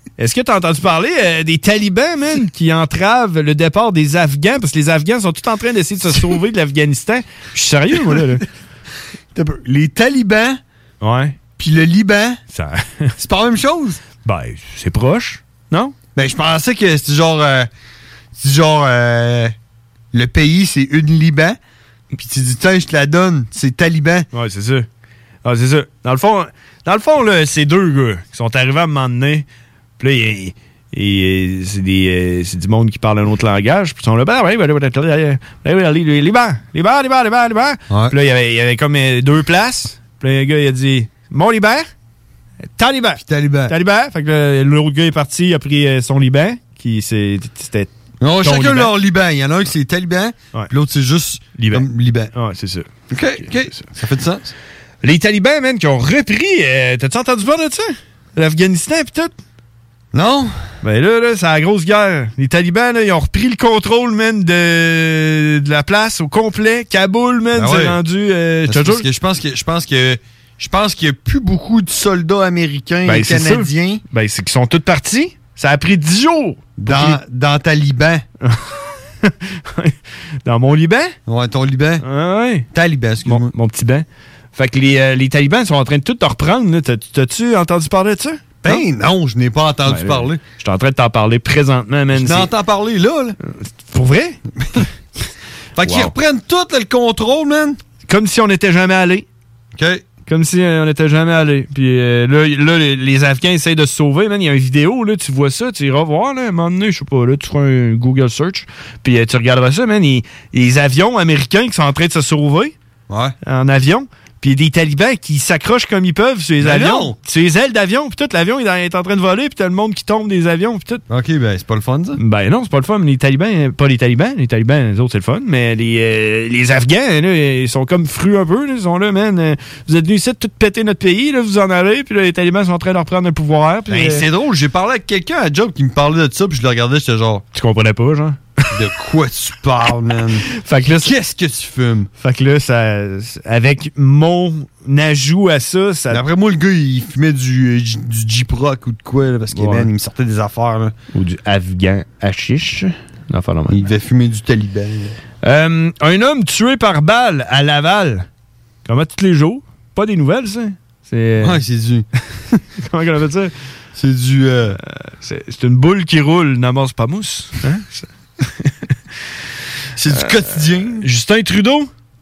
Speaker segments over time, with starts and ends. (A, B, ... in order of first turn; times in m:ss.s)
0:00.2-0:08.4 A
0:09.3-0:10.6 B
0:11.0-0:11.4 A
0:11.6-0:12.4 B
0:12.5-0:13.1 A
0:13.2-0:14.0 B
0:14.2-0:15.9 A
0:16.2-0:17.7 B
0:18.4-0:19.5 B
0:20.1-0:21.6 B
0:22.1-0:24.3 B
0:24.3-0:24.9 A
0:25.4-0:29.4 A
0:30.0-0:41.9 A
0:42.8-0:48.9 A
0:43.2-0:43.7 B
0:48.2-0:52.3 B
0:51.6-0:53.8 A
0:53.1-0:54.5 B
0:55.0-0:59.3 A
1:00.1-1:00.6 B
1:00.8-1:09.0 A
1:07.5-1:08.0 B
1:08.7-1:14.0 B
1:13.0-1:17.2 A
1:16.8-1:18.2 B
1:18.4-1:21.1 A
1:21.3-1:22.0 B
1:22.0-1:22.7 A
1:22.7-1:23.5 B
1:23.2-1:28.8 A
1:28.6-1:30.4 B
1:29.8-1:32.5 A
1:32.1-1:33.4 B
1:33.9-1:34.4 A
1:35.8-1:37.8 B
1:35.8-1:36.1 A
1:38.1-1:39.2 A
1:39.8-1:40.0 B
1:40.3-1:52.7 A
1:53.1-1:53.3 B
1:53.4-2:01.0 A
1:56.6-1:57.1 B
2:01.1-2:02.2 B
2:02.2-2:14.3 A
2:13.9-2:17.4 B
2:17.5-2:18.4 A
2:18.7-2:22.1 B
2:20.5-2:21.1 A
2:22.2-2:26.2 A
2:26.1-2:30.9 B
2:29.5-2:29.9 A
2:31.1-2:33.8 A
2:33.7-2:35.2 B
2:35.4-2:38.2 A
2:38.8-2:41.6 A
2:41.4-2:42.6 B
2:42.8-2:43.5 A
2:44.0-2:44.8 B
2:45.2-2:48.7 A
2:50.0-2:51.0 B
2:50.1-2:51.9 A